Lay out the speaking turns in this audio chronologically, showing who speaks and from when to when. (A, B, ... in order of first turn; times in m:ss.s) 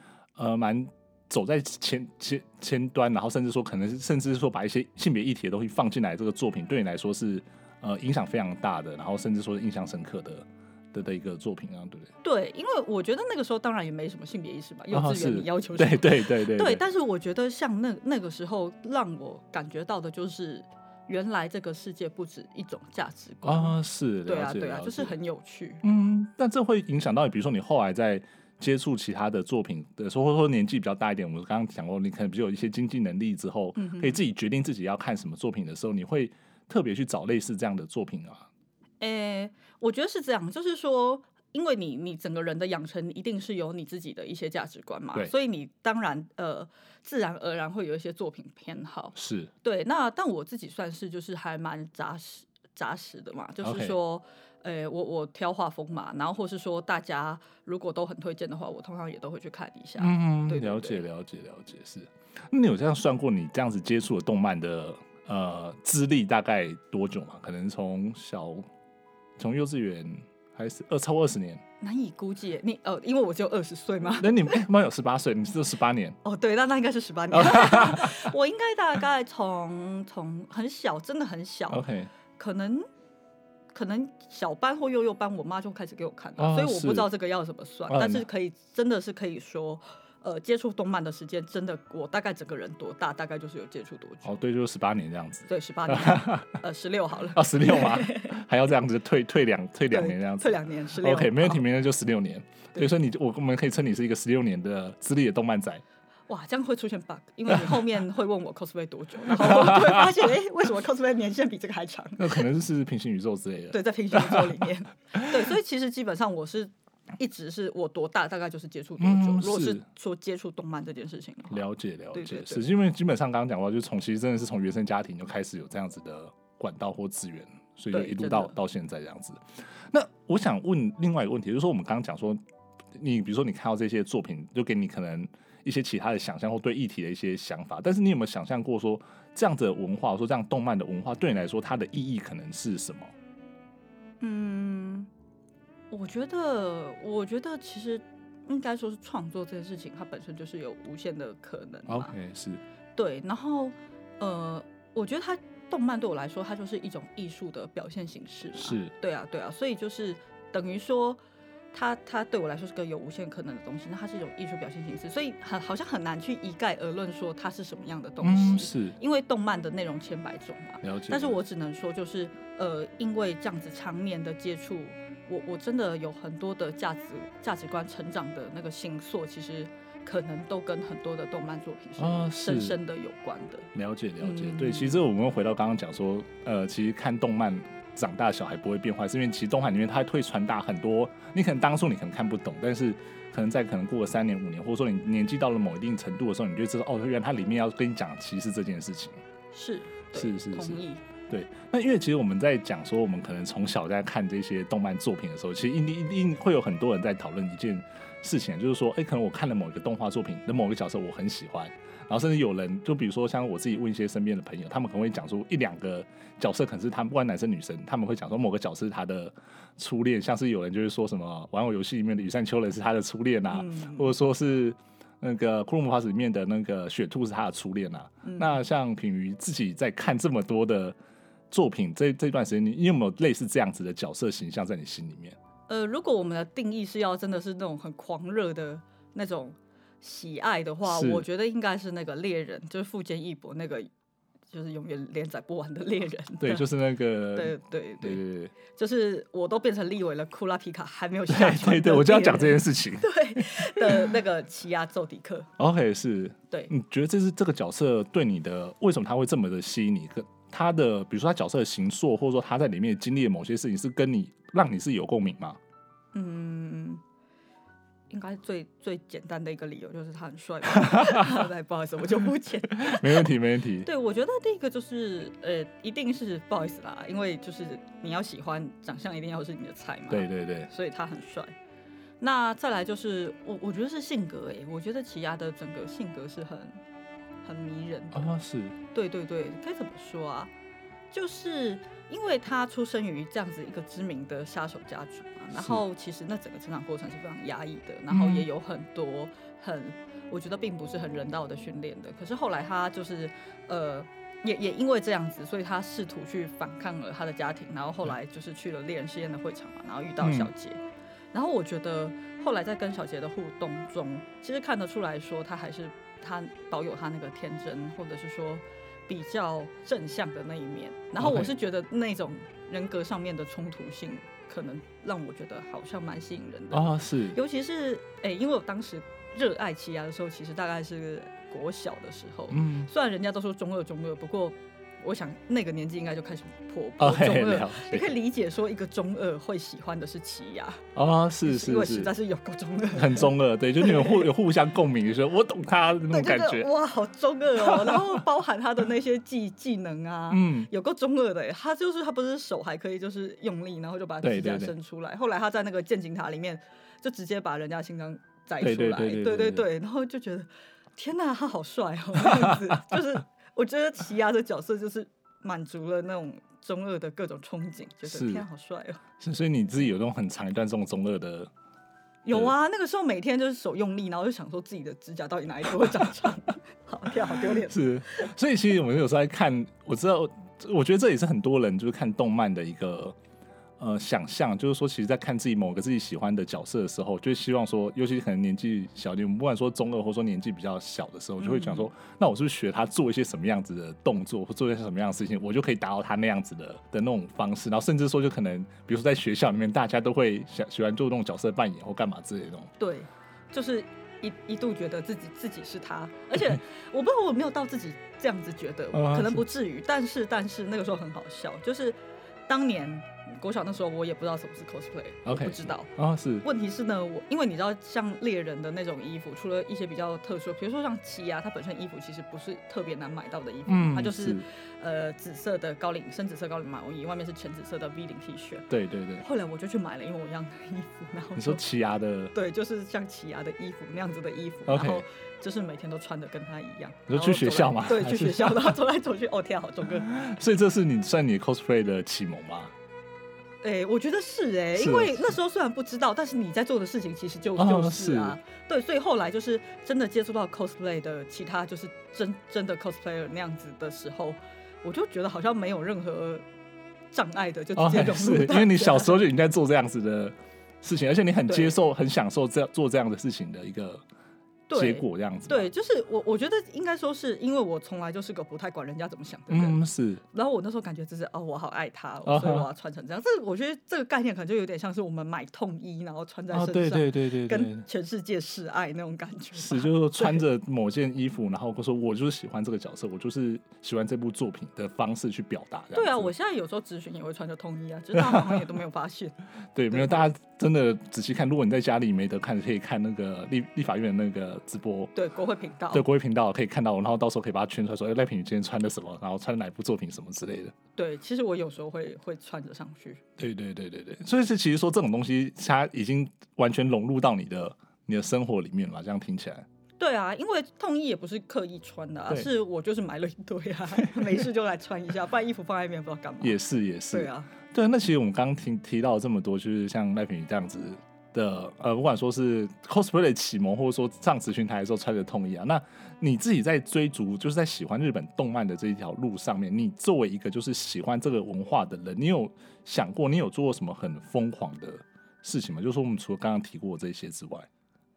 0:00.4-0:12.1 A
0:12.2-0:25.8 B
0:14.9-0:16.8 A
0:23.4-0:25.1 A
0:25.8-0:38.5 A
0:33.8-0:34.2 B
0:39.0-1:01.0 B
0:49.1-0:49.5 A
0:53.6-0:53.9 A
1:00.0-1:08.6 A
1:09.4-1:11.6 A
1:11.8-1:14.6 B
1:14.2-1:16.2 A
1:16.2-1:21.8 B
1:17.3-1:18.3 A
1:21.7-1:22.1 A
1:22.4-1:22.8 B
1:23.7-1:34.3 B
1:26.4-1:27.1 A
1:27.9-1:28.2 A
1:34.2-1:36.6 A
1:35.5-1:38.4 B
1:37.3-1:45.8 A
1:39.9-1:41.6 B
1:46.3-1:52.4 B
1:47.5-1:47.8 A
1:49.3-1:50.1 A
1:52.2-1:54.5 A
1:53.7-2:02.6 B
1:59.0-1:59.8 A
2:01.5-2:12.4 A
2:07.9-2:08.5 B
2:12.9-2:23.1 A
2:24.2-2:25.1 B
2:25.9-2:32.1 B
2:31.9-2:32.6 A
2:33.0-2:41.2 B
2:38.5-2:38.9 A
2:41.7-3:05.0 B
2:48.2-2:49.0 A
2:50.8-2:51.4 A
3:02.0-3:02.8 A
3:03.7-3:19.2 A
3:19.5-3:21.0 B
3:20.1-3:51.0 A
3:43.5-3:44.1 B
3:48.2-3:48.6 B
3:51.5-3:55.4 A
3:55.7-4:03.9 B
4:00.8-4:01.2 A
4:04.5-4:06.7 B
4:06.4-4:08.5 A
4:07.3-4:15.5 B
4:11.3-4:14.1 A
4:15.6-4:25.6 A
4:26.1-4:27.0 B
4:28.1-4:33.3 B
4:30.7-4:31.4 A
4:32.7-4:33.9 A
4:33.8-4:41.5 B
4:40.1-4:40.7 A
4:42.2-4:46.8 B
4:47.4-4:48.3 B
4:48.1-4:48.7 A
4:48.9-4:50.5 B
4:51.1-5:10.8 B
4:55.5-4:55.8 A
4:58.1-4:58.4 A
5:10.2-5:10.5 A
5:11.3-5:40.8 B
5:21.2-5:21.5 A
5:26.7-5:27.4 A
5:32.5-5:32.9 A
5:37.0-5:38.1 A
5:41.0-5:42.1 A
5:41.4-5:44.3 B
5:42.9-5:46.7 A
5:46.1-6:09.0 B
5:47.6-5:48.2 A
5:50.3-5:50.7 A
5:54.2-5:54.7 A
5:58.6-5:59.7 A
6:08.0-6:08.4 A
6:09.2-6:11.5 A
6:12.2-6:18.3 B
6:17.4-6:23.2 A
6:23.8-6:42.7 A
6:31.4-6:31.9 B
6:42.8-6:55.9 B
6:48.9-6:49.4 A
6:55.2-6:56.4 A
6:56.4-7:11.6 B
7:03.7-7:04.4 A
7:08.7-7:09.2 A
7:11.4-7:12.3 A
7:12.3-7:20.2 B
7:14.7-7:15.0 A
7:17.1-7:18.8 A
7:20.1-7:22.7 A
7:23.6-7:36.4 B
7:24.7-7:25.4 A
7:27.6-7:28.4 A
7:37.1-7:39.2 B
7:37.8-7:44.0 A
7:41.4-7:41.8 B
7:44.7-8:00.4 B
7:44.7-7:45.7 A
7:49.5-7:50.2 A
7:52.2-7:52.7 A
7:56.5-7:57.8 A
7:59.6-8:06.3 A
8:05.9-8:09.4 B
8:08.1-8:08.6 A
8:09.7-8:15.1 A
8:09.9-8:10.2 B
8:15.1-8:16.0 B
8:15.9-8:20.7 A
8:21.0-8:23.2 B
8:23.4-8:29.6 A
8:30.0-8:36.6 B
8:36.4-8:57.7 A
8:37.1-8:37.5 B